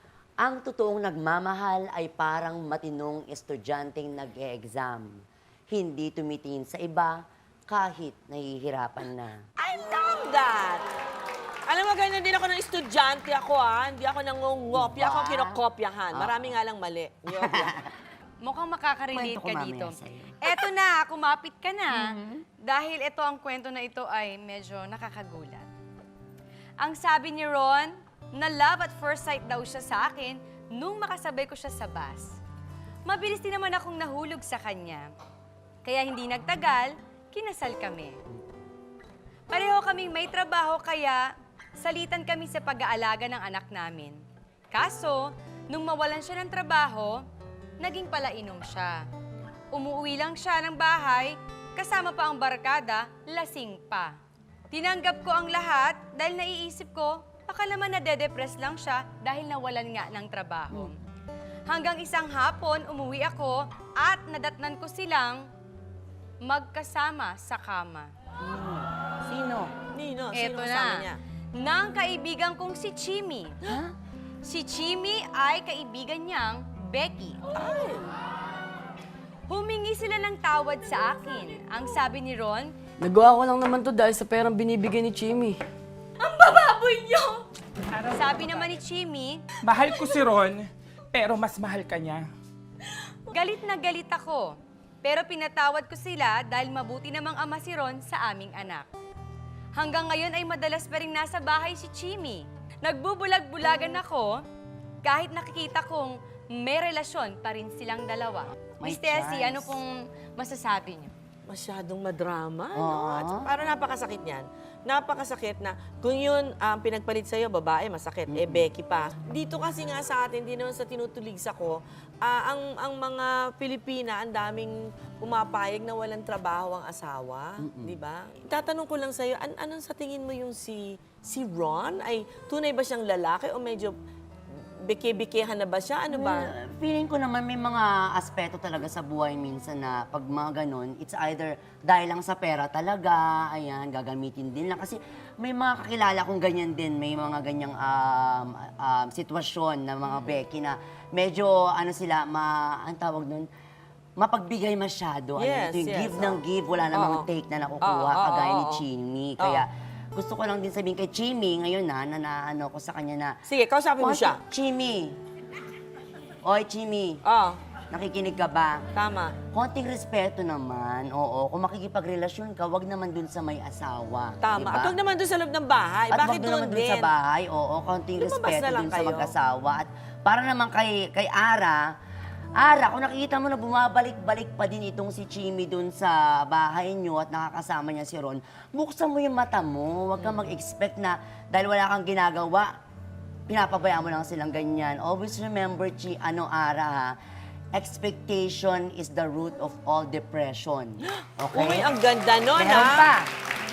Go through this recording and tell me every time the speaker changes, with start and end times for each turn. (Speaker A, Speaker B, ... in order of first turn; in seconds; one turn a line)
Speaker A: 0.4-9.4
Speaker B: 9.6-10.8
Speaker B: 11.7-17.8
Speaker A: 14.7-15.6
Speaker A: 16.1-16.4
Speaker A: 17.3-17.9
Speaker C: 18.4-22.1
Speaker A: 19.1-20.6
Speaker A: 21.9-22.4
Speaker C: 22.7-25.7
Speaker C: 26.8-32.4
Speaker C: 33.1-35.1
Speaker C: 35.8-38.2
Speaker C: 39.5-44.2
Speaker C: 44.7-47.2
Speaker C: 47.8-49.0
Speaker C: 49.7-54.2
Speaker C: 54.7-61.0
Speaker C: 61.7-65.5
Speaker C: 66.4-68.1
Speaker A: 68.4-69.7
Speaker B: 69.9-71.2
Speaker C: 70.3-73.6
Speaker A: 73.6-73.9
Speaker C: 74.4-77.4
Speaker B: 77.5-78.1
Speaker C: 79.5-82.8
Speaker D: 83.0-85.6
Speaker B: 86.3-87.4
Speaker E: 88.0-88.3
Speaker C: 88.1-89.4
Speaker E: 89.6-92.3
Speaker C: 93.3-98.9
Speaker C: 99.8-104.4
Speaker C: 105.0-111.1
Speaker A: 108.8-109.8
Speaker B: 111.5-134.0
Speaker A: 112.8-113.5
Speaker A: 118.3-118.7
Speaker A: 127.6-128.0
Speaker B: 134.5-136.5
Speaker A: 136.1-153.5
Speaker A: 154.2-163.4
Speaker B: 155.4-156.4
Speaker B: 156.9-157.3
Speaker B: 157.8-158.8
Speaker B: 159.4-159.7
Speaker B: 163.5-164.4
Speaker A: 164.0-165.2
Speaker A: 166.4-167.2
Speaker B: 167.2-167.6
Speaker A: 167.9-168.8
Speaker B: 168.9-169.4
Speaker A: 169.5-175.0
Speaker B: 174.4-177.1
Speaker A: 176.1-181.8
Speaker B: 178.2-179.3
Speaker A: 182.6-192.7
Speaker A: 193.5-197.2
Speaker A: 197.7-201.9
Speaker B: 201.5-203.1
Speaker A: 202.6-203.3